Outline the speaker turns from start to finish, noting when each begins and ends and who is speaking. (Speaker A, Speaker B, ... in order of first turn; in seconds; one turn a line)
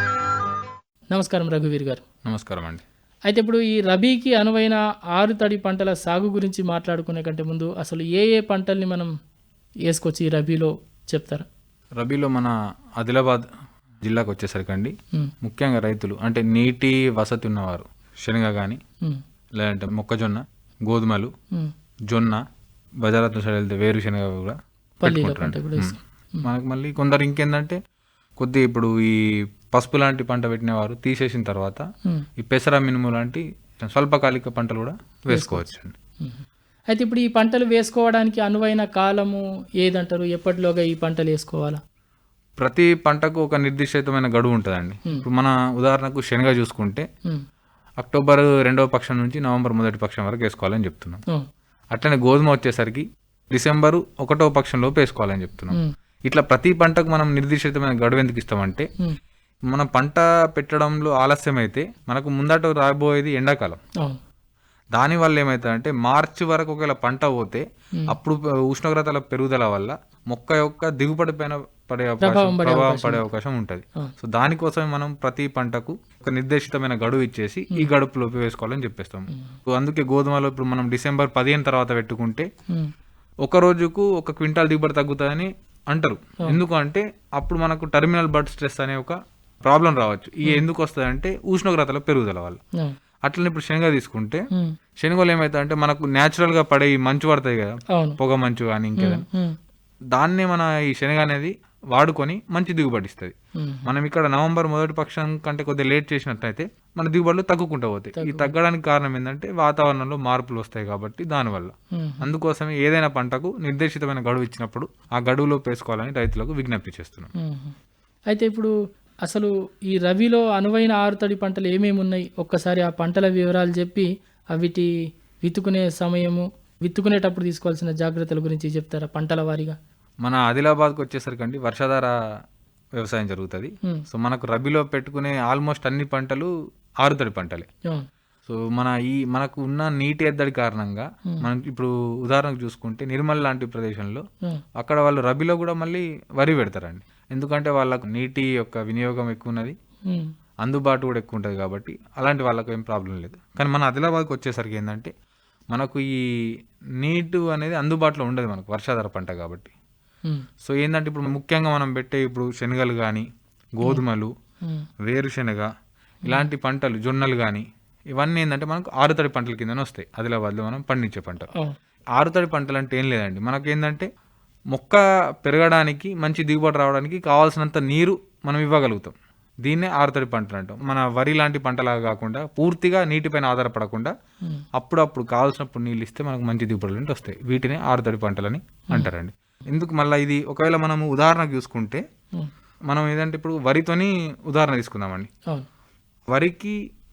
Speaker A: 1.1-2.0
Speaker B: 2.3-2.8
Speaker A: 3.3-9.1
Speaker A: 9.9-11.5
Speaker B: 12.0-13.5
Speaker B: 14.0-18.8
Speaker B: 19.6-21.3
Speaker B: 22.1-22.4
Speaker B: 23.0-27.8
Speaker A: 25.0-26.5
Speaker B: 28.4-31.8
Speaker B: 32.4-35.9
Speaker A: 35.3-35.6
Speaker A: 36.2-41.8
Speaker B: 42.6-47.1
Speaker B: 48.0-51.2
Speaker B: 51.9-58.9
Speaker B: 59.7-63.8
Speaker B: 65.0-82.5
Speaker A: 72.2-73.2
Speaker B: 83.4-89.1
Speaker B: 89.7-92.6
Speaker B: 93.3-94.4
Speaker B: 95.0-99.2
Speaker A: 99.0-99.5
Speaker B: 100.1-103.3
Speaker A: 103.6-103.9
Speaker B: 103.9-117.3
Speaker A: 108.2-108.5
Speaker A: 112.0-112.3
Speaker A: 117.4-117.7
Speaker A: 118.3-118.7
Speaker A: 119.3-124.9
Speaker A: 125.4-129.8
Speaker B: 130.2-132.1
Speaker B: 133.0-136.5
Speaker B: 137.0-137.7
Speaker B: 138.5-144.2
Speaker B: 144.8-149.8
Speaker B: 150.6-155.1
Speaker B: 155.7-156.1
Speaker B: 157.0-159.7
Speaker B: 160.6-163.3
Speaker B: 163.8-164.3
Speaker B: 165.1-165.7
Speaker B: 166.2-171.5
Speaker B: 172.2-174.1
Speaker B: 174.7-179.1
Speaker B: 179.7-184.1
Speaker B: 184.8-192.0
Speaker B: 192.9-195.3
Speaker B: 196.3-196.8